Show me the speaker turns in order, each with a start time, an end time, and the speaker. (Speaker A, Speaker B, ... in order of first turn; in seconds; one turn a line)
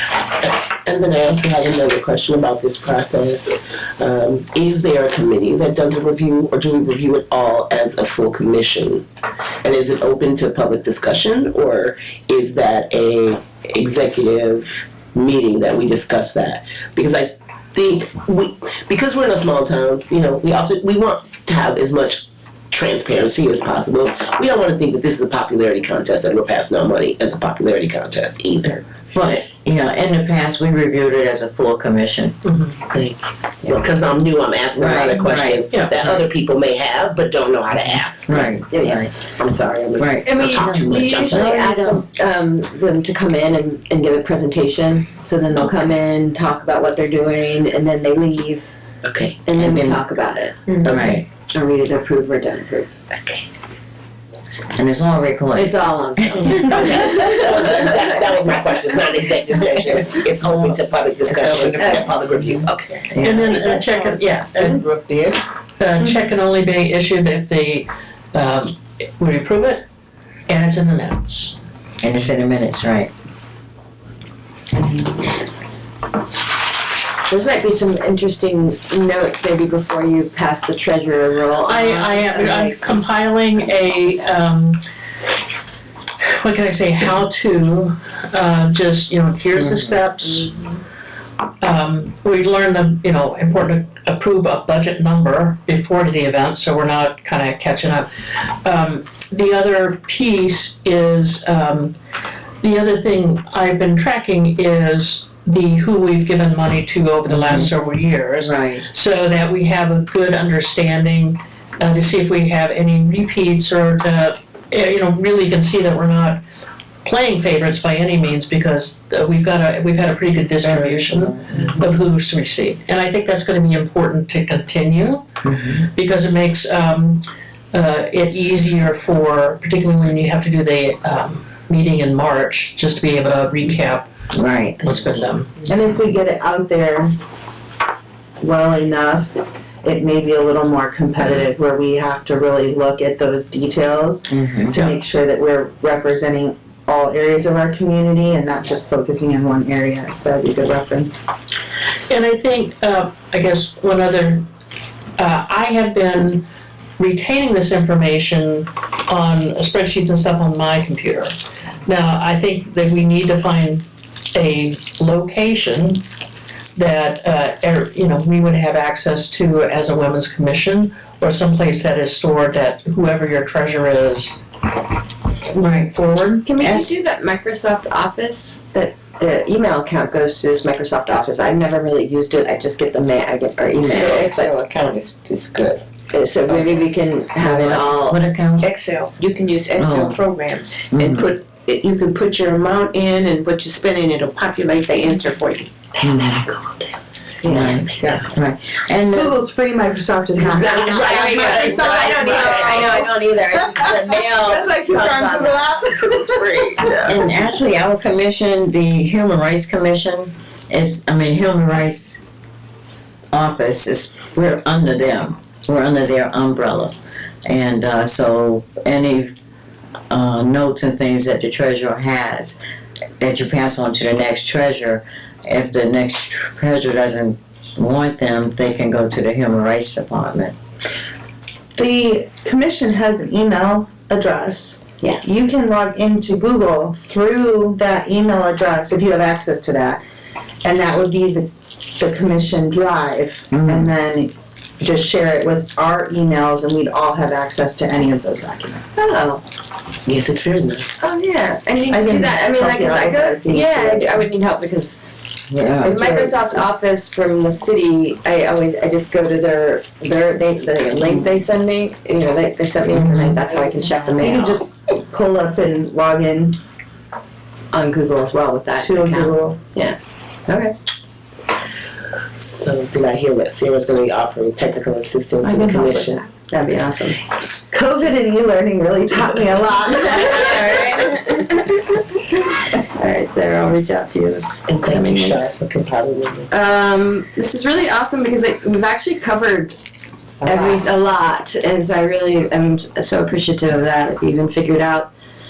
Speaker A: 0.4-9.1
Speaker A: 9.6-28.9
Speaker B: 29.1-32.4
Speaker C: 32.5-32.8
Speaker A: 32.9-38.5
Speaker B: 34.7-35.6
Speaker B: 37.9-39.1
Speaker D: 38.7-39.1
Speaker A: 39.4-41.5
Speaker B: 40.0-40.3
Speaker D: 40.2-48.7
Speaker B: 41.3-42.0
Speaker A: 45.5-45.9
Speaker A: 49.0-49.4
Speaker D: 49.5-52.9
Speaker B: 49.6-50.0
Speaker A: 50.8-51.2
Speaker B: 50.8-51.2
Speaker A: 53.1-53.5
Speaker B: 54.6-56.6
Speaker D: 55.5-58.0
Speaker A: 56.6-63.1
Speaker E: 61.3-62.7
Speaker D: 61.8-62.1
Speaker B: 63.1-63.5
Speaker C: 63.2-64.9
Speaker E: 63.5-65.4
Speaker C: 65.8-69.8
Speaker C: 70.5-71.6
Speaker B: 72.0-73.1
Speaker D: 77.3-83.0
Speaker C: 81.6-84.8
Speaker C: 86.2-90.5
Speaker B: 89.6-90.0
Speaker C: 91.6-101.9
Speaker C: 102.6-116.4
Speaker B: 107.3-107.8
Speaker B: 108.4-108.8
Speaker C: 117.0-125.3
Speaker B: 120.6-121.9
Speaker B: 125.4-125.9
Speaker C: 125.9-134.1
Speaker B: 134.3-134.9
Speaker C: 134.8-135.7
Speaker F: 135.7-137.1
Speaker F: 138.4-151.2
Speaker B: 144.3-144.8
Speaker C: 144.7-145.0
Speaker C: 152.1-154.5
Speaker C: 155.2-156.5
Speaker C: 157.0-161.3
Speaker C: 161.9-166.0
Speaker C: 166.8-174.4
Speaker B: 175.6-175.9
Speaker C: 175.8-176.5
Speaker D: 176.4-184.5
Speaker B: 176.6-177.0
Speaker E: 183.9-185.8
Speaker D: 186.1-188.2
Speaker B: 187.4-188.7
Speaker E: 188.6-195.7
Speaker B: 189.8-190.2
Speaker B: 190.9-191.3
Speaker F: 196.0-196.9
Speaker B: 196.0-196.5
Speaker D: 197.4-198.3
Speaker F: 197.4-198.3
Speaker B: 197.5-199.4
Speaker F: 199.1-207.2
Speaker D: 200.4-207.0
Speaker E: 200.4-202.9
Speaker B: 207.0-212.2
Speaker B: 213.3-219.3
Speaker B: 220.1-222.6
Speaker B: 223.2-230.6
Speaker F: 231.8-240.0
Speaker D: 235.0-235.4
Speaker F: 240.6-248.9
Speaker B: 243.5-243.9
Speaker D: 249.0-249.4
Speaker A: 250.1-251.0
Speaker D: 251.0-255.0
Speaker F: 251.9-254.3
Speaker B: 255.5-255.9
Speaker F: 255.8-256.5
Speaker D: 255.8-264.6
Speaker B: 262.9-263.4
Speaker F: 264.2-266.6
Speaker D: 267.7-270.8
Speaker F: 268.8-269.6
Speaker A: 272.4-276.2
Speaker D: 275.4-277.2
Speaker F: 275.4-276.2
Speaker F: 277.7-280.7
Speaker D: 279.9-285.6
Speaker A: 284.7-286.5
Speaker D: 286.5-289.8
Speaker D: 290.4-295.1
Speaker A: 290.4-290.8